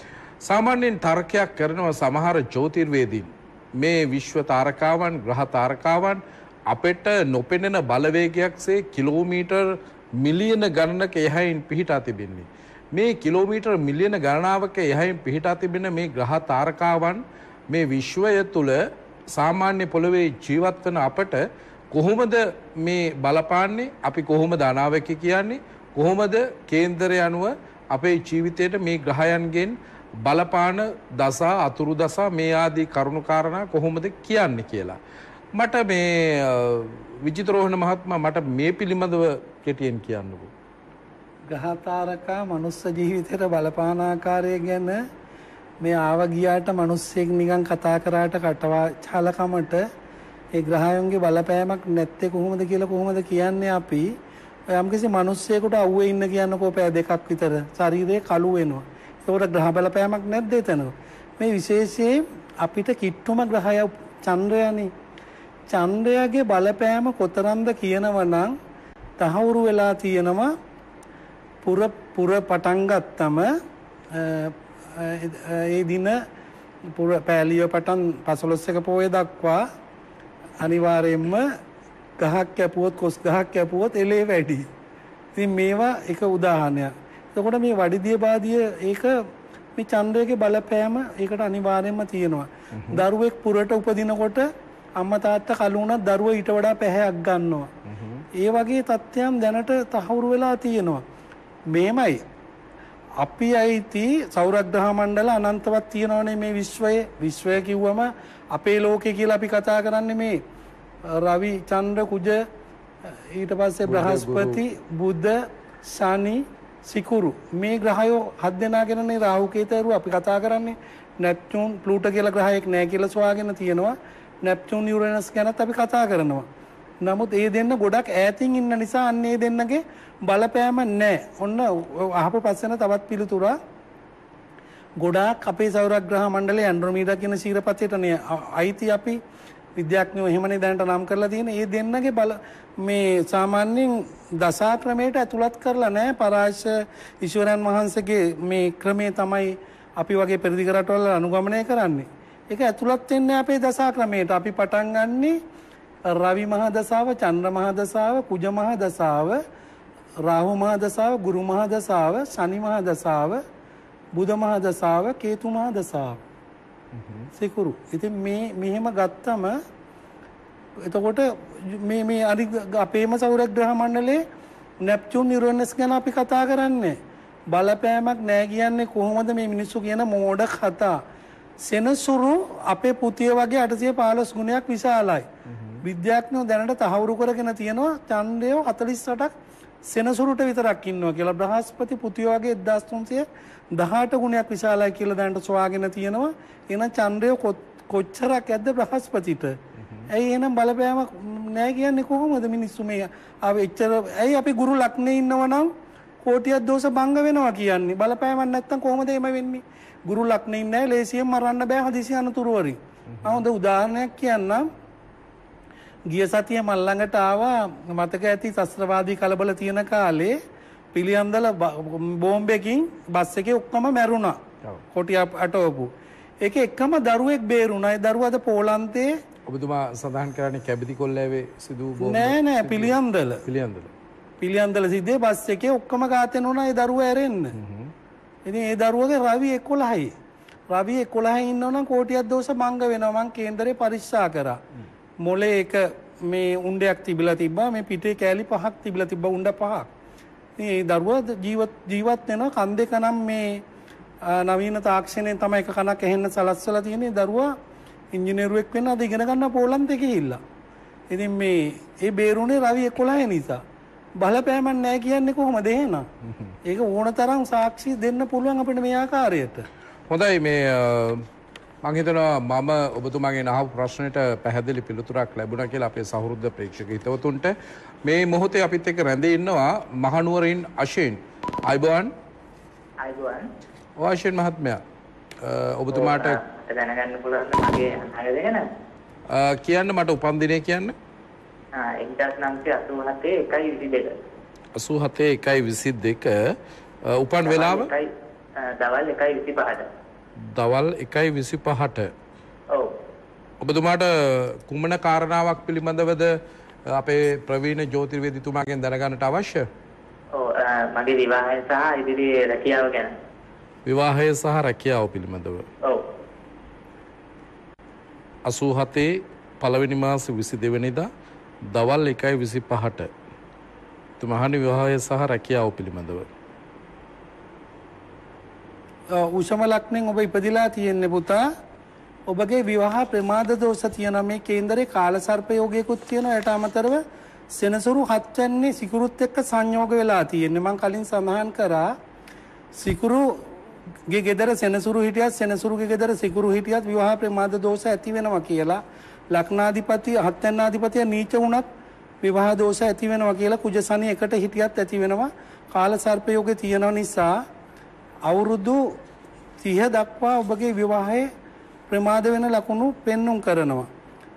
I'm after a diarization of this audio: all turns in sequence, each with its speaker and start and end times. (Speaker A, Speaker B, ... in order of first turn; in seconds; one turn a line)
Speaker A: 0.4-35.0
Speaker A: 35.5-40.5
Speaker B: 41.5-45.0
Speaker B: 45.8-49.9
Speaker B: 50.5-54.1
Speaker B: 54.7-64.9
Speaker B: 65.7-68.5
Speaker B: 69.2-70.5
Speaker B: 71.6-73.5
Speaker B: 74.1-76.2
Speaker B: 76.9-79.6
Speaker B: 80.6-81.5
Speaker B: 82.2-84.7
Speaker B: 85.4-89.2
Speaker B: 89.8-97.7
Speaker A: 92.7-93.0
Speaker A: 97.9-98.3
Speaker B: 98.3-101.0
Speaker B: 101.7-102.2
Speaker B: 103.2-110.4
Speaker B: 111.1-112.4
Speaker B: 113.1-126.5
Speaker A: 113.9-114.6
Speaker B: 127.0-133.6
Speaker B: 135.0-139.2
Speaker B: 139.8-155.4
Speaker B: 156.1-159.4
Speaker B: 160.2-163.4
Speaker B: 164.1-166.2
Speaker A: 166.9-167.3
Speaker B: 167.3-169.6
Speaker B: 170.8-174.2
Speaker B: 174.8-177.0
Speaker B: 177.5-181.0
Speaker B: 181.6-185.3
Speaker A: 185.5-185.8
Speaker B: 185.8-189.3
Speaker B: 189.9-199.6
Speaker A: 199.8-200.1
Speaker B: 200.1-214.7
Speaker A: 213.1-213.4
Speaker B: 216.1-220.4
Speaker B: 220.9-224.4
Speaker B: 224.9-229.1
Speaker A: 229.5-233.9
Speaker B: 232.0-233.4
Speaker B: 234.4-237.6
Speaker A: 237.5-237.9
Speaker B: 238.4-240.1
Speaker B: 240.7-244.6
Speaker B: 245.2-249.9
Speaker B: 250.6-253.6
Speaker B: 254.2-257.6
Speaker B: 258.1-260.4
Speaker B: 261.1-263.6
Speaker B: 264.2-266.1
Speaker A: 266.2-266.6
Speaker B: 266.6-269.7
Speaker A: 270.1-271.3
Speaker A: 271.8-282.1
Speaker C: 283.0-283.5
Speaker A: 284.0-284.8
Speaker A: 285.4-286.4
Speaker C: 285.9-288.6
Speaker A: 289.3-290.9
Speaker C: 291.8-294.2
Speaker A: 294.8-297.9
Speaker C: 297.4-299.9
Speaker A: 300.4-302.1
Speaker A: 303.6-309.7
Speaker C: 310.3-313.1
Speaker A: 313.9-315.7
Speaker A: 318.4-321.1
Speaker A: 321.7-323.1
Speaker A: 324.2-326.3
Speaker B: 329.1-331.5
Speaker B: 332.3-341.9
Speaker B: 342.8-343.6
Speaker B: 344.1-351.7
Speaker B: 352.2-357.4
Speaker B: 358.3-359.0
Speaker B: 359.6-361.3
Speaker B: 361.9-363.9